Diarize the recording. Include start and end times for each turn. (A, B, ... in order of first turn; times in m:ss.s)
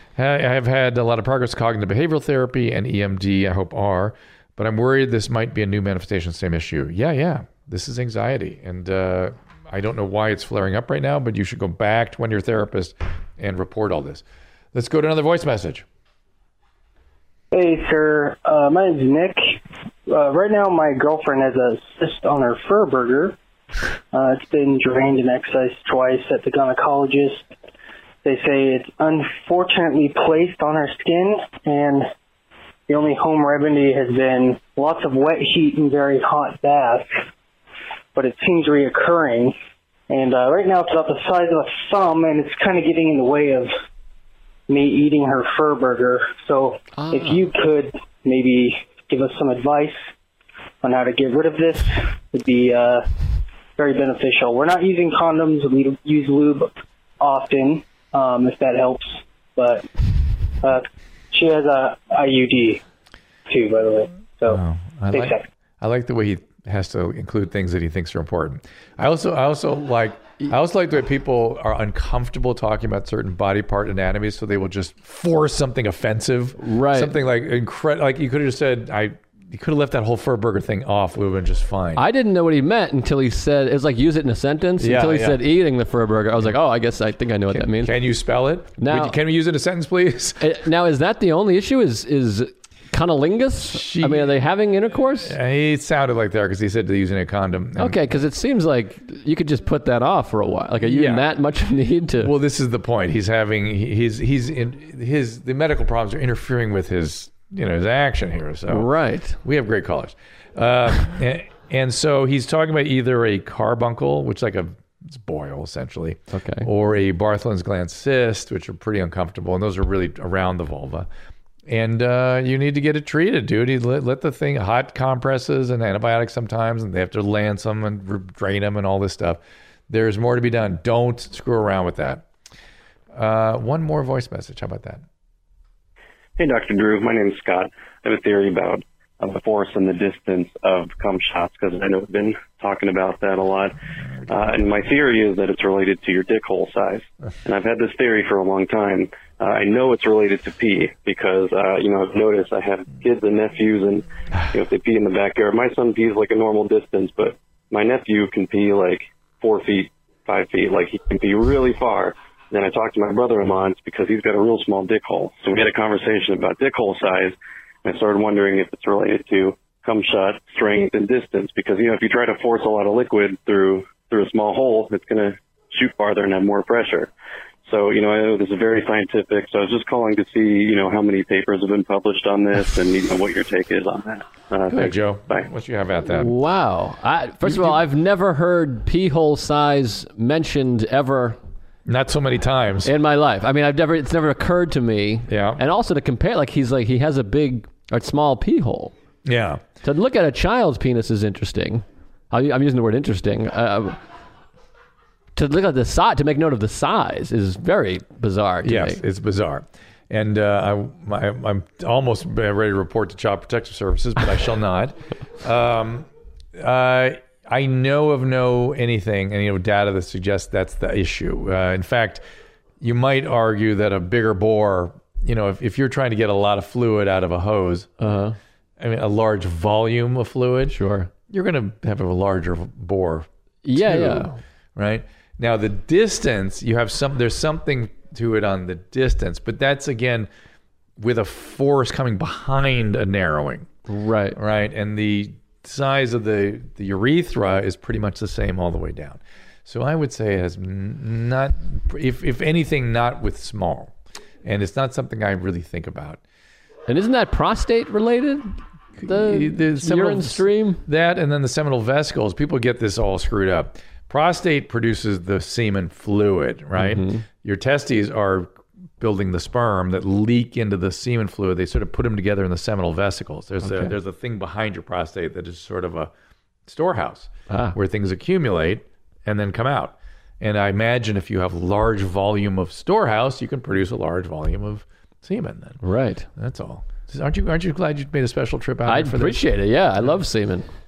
0:00.2-0:15.8 A
0:17.5-0:23.4 B
0:24.1-0:27.5 B
0:28.2-0:32.1 B
0:32.9-0:37.2 B
0:38.1-0:39.6 B
0:40.1-0:43.7 B
0:44.7-0:50.0 B
0:46.9-0:47.4 C
0:50.8-0:53.1 B
0:53.8-1:00.1 B
1:00.6-1:02.8 B
1:03.5-1:04.6 B
1:04.4-1:22.0 A
1:05.1-1:05.4 B
1:16.6-1:17.2 C
1:22.0-1:27.9 C
1:24.8-1:25.4 A
1:27.5-1:30.5 A
1:28.8-1:29.2 C
1:30.4-1:35.3 C
1:33.6-1:34.3 A
1:35.1-1:38.0 A
1:37.8-1:42.3 C
1:40.8-1:41.3 A
1:42.2-1:48.9 A
1:48.7-1:49.4 C
1:49.4-2:01.1 A
1:56.3-1:56.7 C
2:01.7-2:12.2 A
2:13.1-2:15.0 A
2:16.4-2:23.8 D
2:24.3-2:57.1 D
2:57.6-3:05.5 D
3:04.7-3:06.3 A
3:06.0-3:11.4 C
3:07.4-3:07.8 A
3:11.8-3:12.9 A
3:12.8-3:18.9 C
3:15.3-3:15.6 A
3:19.2-3:19.6 A
3:19.8-3:24.0 C
3:25.4-3:29.0 C
3:28.6-3:42.2 A
3:42.8-3:47.9 A
3:48.0-3:48.4 C
3:48.8-3:50.8 A
3:50.7-3:51.1 C
3:51.3-4:00.3 A
3:53.6-3:54.4 C
4:01.0-4:03.7 A
4:03.9-4:04.4 C
4:04.3-4:16.2 A
4:16.9-4:20.8 C
4:19.0-4:36.1 A
4:26.8-4:27.2 C
4:33.6-4:33.9 C
4:36.6-4:45.8 A
4:37.5-4:37.8 C
4:45.8-4:46.3 C
4:46.4-4:49.4 A
4:48.8-4:50.7 C